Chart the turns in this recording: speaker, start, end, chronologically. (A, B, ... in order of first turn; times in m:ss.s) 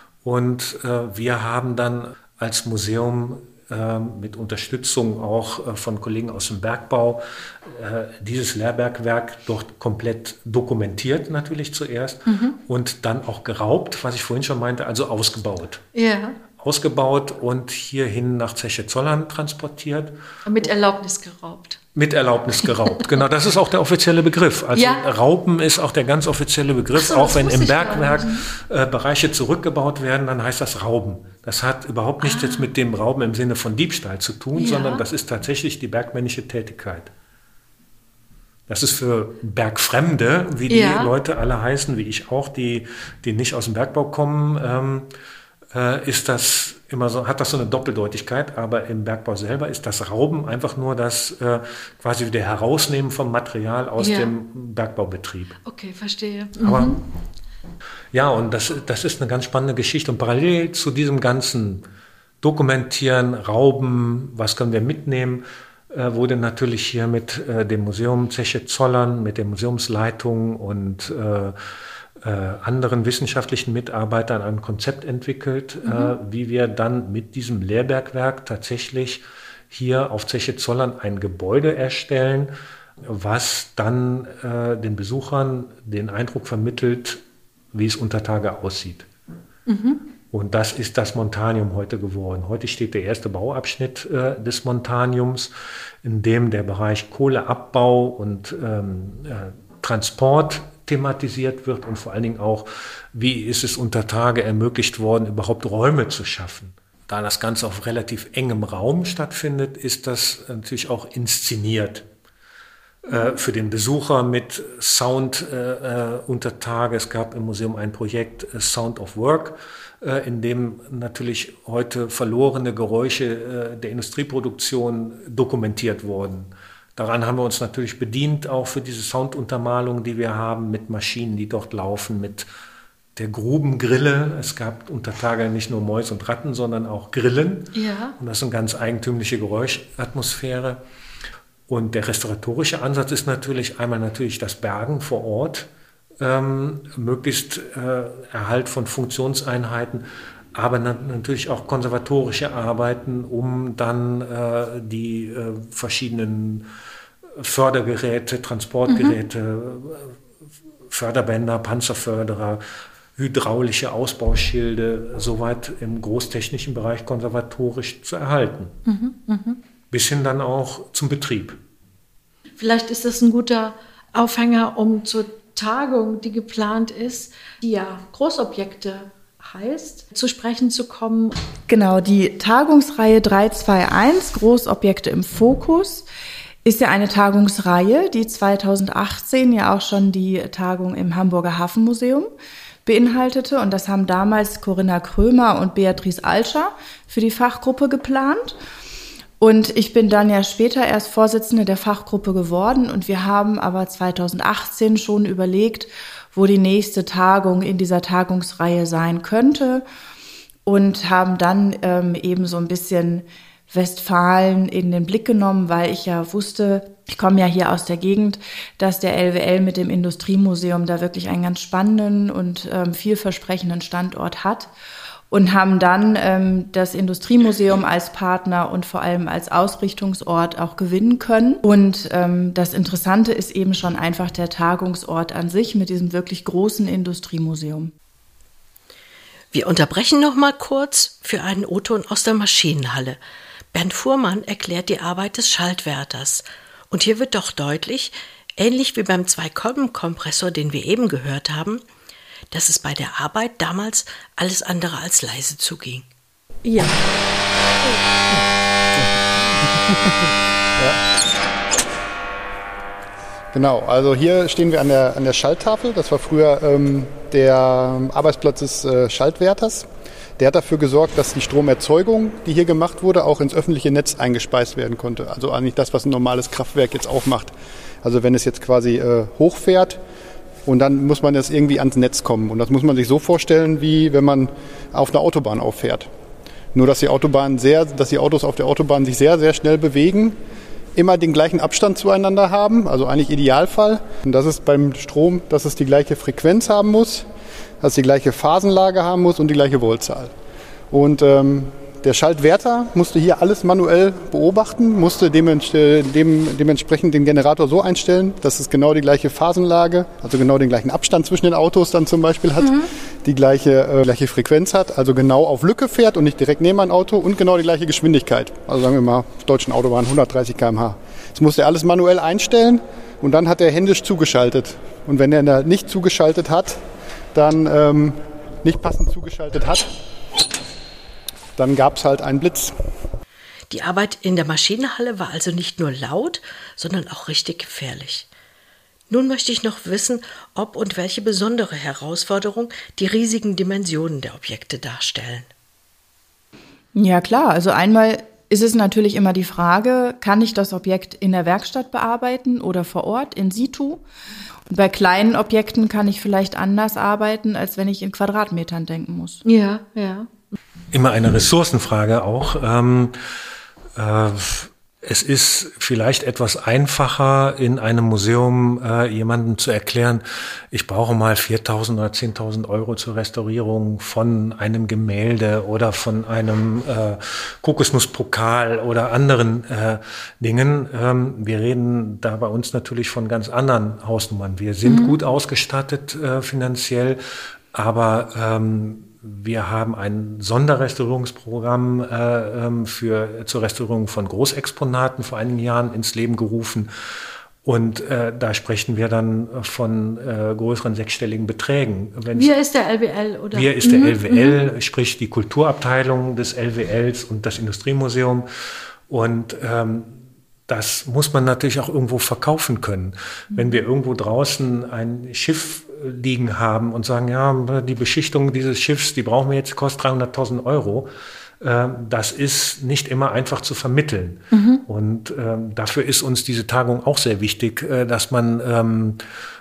0:00.2-0:15.8 A
0:12.2-0:12.6 B
0:15.9-0:16.4 B
0:16.6-0:20.2 A
0:20.4-0:21.8 B
0:21.9-0:37.1 A
0:24.7-0:25.1 B
0:26.9-0:28.4 B
0:32.2-0:32.7 B
0:34.5-0:35.0 B
0:38.7-0:45.1 A
0:40.7-0:41.1 B
0:45.7-0:55.5 A
0:54.0-0:54.3 B
0:55.6-0:57.0 B
0:56.6-0:57.0 A
0:58.1-1:01.8 A
1:02.4-1:11.6 A
1:12.2-1:27.2 A
1:15.8-1:16.1 B
1:27.7-1:29.1 A
1:29.7-1:30.0 B
1:30.3-1:52.0 A
1:53.0-2:12.5 A
2:13.2-2:20.8 A
2:17.7-2:18.2 B
2:21.7-2:25.7 A
2:26.2-2:36.7 A
2:37.4-2:40.2 A
2:38.9-2:39.2 B
2:40.9-2:42.6 A
2:43.2-2:48.7 A
2:48.8-2:49.6 B
2:49.9-2:51.6 A
2:52.6-3:01.4 B
3:01.7-3:06.0 C
3:06.6-3:12.3 C
3:12.8-3:18.6 C
3:19.4-3:29.8 C
3:30.6-3:44.7 C
3:45.3-3:57.9 C
3:59.5-4:03.2 D
4:03.7-4:11.8 D
4:12.5-4:16.0 D
4:16.6-4:17.0 B
4:19.0-4:21.0 E
4:23.5-4:29.9 E
4:30.4-4:40.0 E
4:40.6-4:46.1 E
4:46.7-4:50.4 E
4:51.0-4:57.3 E
4:57.8-5:00.3 E
5:00.9-5:26.8 E
5:27.3-5:29.9 E
5:31.6-5:32.7 E
5:33.7-5:38.3 D
5:39.1-5:45.5 D
5:46.9-5:54.0 C
5:54.7-5:59.4 C
5:59.4-6:00.5 B
6:00.9-6:03.2 A
6:04.0-6:27.2 A
6:24.8-6:25.1 B
6:27.7-6:36.9 A
6:37.6-6:42.5 A
6:42.3-6:44.6 B
6:43.5-6:48.5 A
6:49.1-7:01.1 A
7:01.6-7:09.2 A
7:04.5-7:04.8 B